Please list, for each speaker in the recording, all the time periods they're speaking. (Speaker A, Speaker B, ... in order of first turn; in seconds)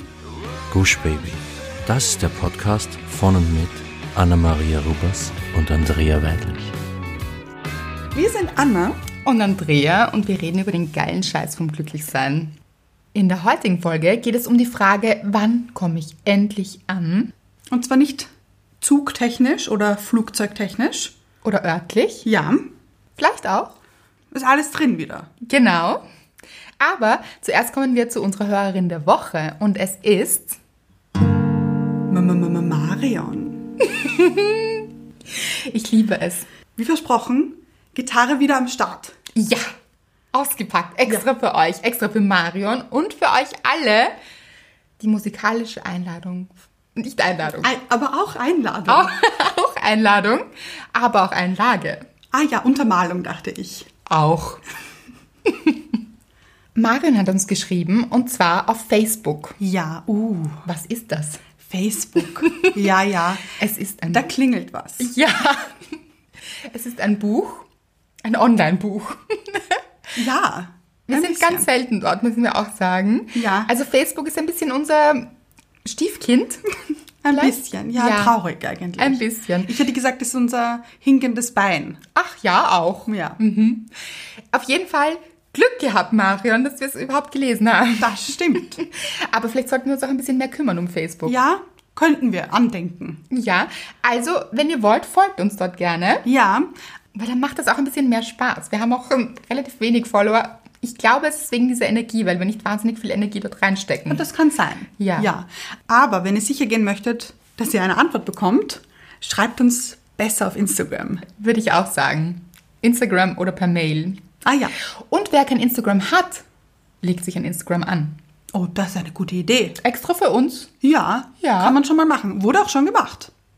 Speaker A: 0.7-6.7
Speaker B: 8.1-9.0, 17.7-18.3, 18.8-21.1, 22.2-22.7, 24.3-25.3, 32.1-33.6, 36.8-39.1, 47.6-49.2, 52.3-53.9, 59.6-60.6, 61.6-63.4, 64.1-65.1, 70.1-71.7, 73.3-73.7, 77.2-82.0, 83.1-83.4, 88.0-88.8, 91.2-93.2, 96.2-96.7, 104.1-111.2, 114.4-114.7, 118.5-119.8, 120.8-123.3
Speaker C: 9.2-12.5, 13.1-17.3, 21.4-22.2, 23.2-23.7, 25.4-26.0, 26.8-30.6, 33.8-36.5, 39.3-39.7, 40.3-44.1, 45.0-47.7, 48.9-52.0, 54.0-54.6, 55.5-55.8, 56.8-59.6, 60.6-61.4, 62.4-62.7, 63.5-64.3, 65.0-65.8, 66.7-67.7, 68.2-69.8, 71.1-75.3, 75.8-76.6, 77.3-78.4, 79.0-79.7, 82.1-83.9, 84.5-91.4, 93.3-96.2, 97.1-104.2, 105.0-105.3, 111.3-114.2, 115.1-116.4, 117.0-118.2, 119.8-120.7, 121.4-121.8